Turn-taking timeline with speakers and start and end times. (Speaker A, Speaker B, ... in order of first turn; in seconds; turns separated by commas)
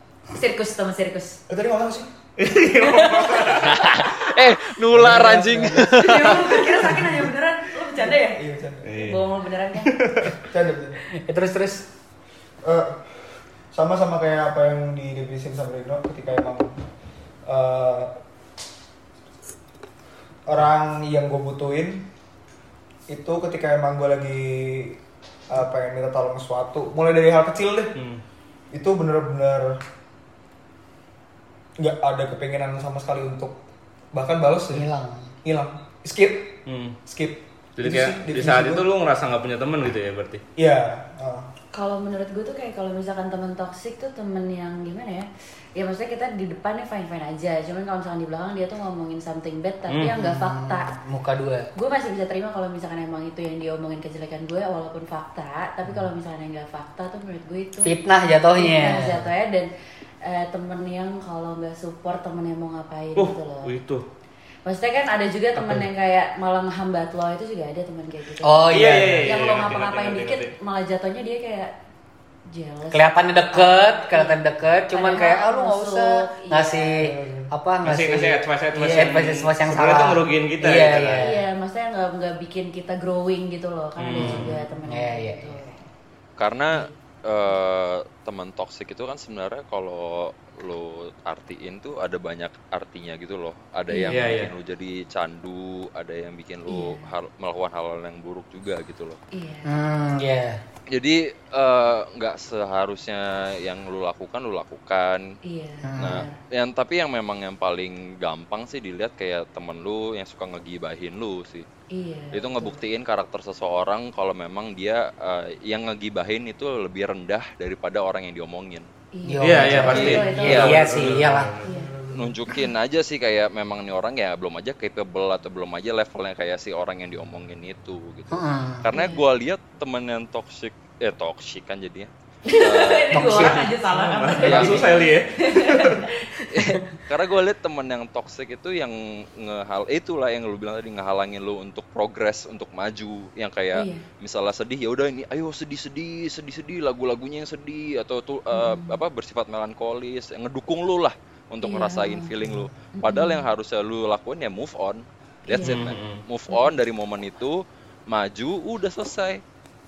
Speaker A: 0.3-1.4, Speaker B: 1.5-2.1, Speaker C: 2.4-3.8, Speaker D: 3.4-6.6, Speaker B: 4.9-7.2, Speaker A: 5.9-8.4, Speaker B: 8.0-9.0, Speaker C: 8.8-9.2, Speaker A: 8.9-9.9, Speaker C: 9.8-10.3, Speaker B: 10.2-11.0, Speaker E: 11.1-11.9, Speaker B: 12.6-16.7, Speaker B: 17.4-18.1, Speaker B: 20.5-22.1, Speaker B: 23.1-25.0, Speaker B: 25.5-27.9, Speaker C: 27.9-28.2, Speaker B: 28.7-29.8, Speaker B: 31.8-33.6, Speaker B: 34.1-34.9, Speaker E: 34.7-35.3, Speaker B: 35.4-38.9, Speaker C: 36.6-37.0, Speaker C: 37.8-40.4, Speaker B: 40.6-41.5, Speaker A: 41.7-50.9, Speaker E: 50.1-51.7, Speaker A: 51.7-57.9, Speaker E: 57.8-59.3, Speaker A: 58.5-59.7, Speaker A: 60.2-63.7, Speaker C: 63.1-64.0, Speaker A: 64.6-68.7, Speaker E: 68.4-69.3, Speaker C: 68.7-70.5, Speaker A: 69.2-71.7, Speaker A: 72.5-77.1, Speaker E: 72.9-81.4, Speaker B: 77.0-77.5, Speaker C: 77.8-81.3, Speaker A: 81.2-85.8, Speaker C: 84.0-84.5, Speaker E: 84.2-85.6, Speaker D: 86.4-99.2, Speaker A: 93.9-94.2, Speaker C: 94.1-94.5, Speaker A: 96.7-97.1, Speaker A: 99.3-99.7, Speaker E: 99.6-100.6, Speaker D: 100.9-105.3, Speaker A: 105.4-106.3, Speaker E: 105.8-106.2, Speaker D: 106.0-111.7, Speaker A: 111.9-112.8, Speaker D: 112.3-118.9, Speaker A: 119.1-120.9, Speaker E: 119.3-121.6, Speaker C: 119.4-121.8, Speaker D: 119.8-121.2, Speaker A: 121.6-121.9, Speaker D: 122.1-133.5, Speaker E: 128.3-128.8, Speaker A: 128.9-129.2, Speaker A: 132.4-136.3, Speaker E: 133.1-133.7, Speaker C: 133.9-136.0, Speaker D: 134.4-134.9, Speaker D: 136.5-159.4, Speaker E: 136.6-136.8, Speaker A: 143.7-144.0, Speaker A: 148.5-149.0, Speaker A: 151.6-152.3, Speaker A: 152.9-153.5, Speaker A: 155.5-155.9, Speaker C: 155.6-156.2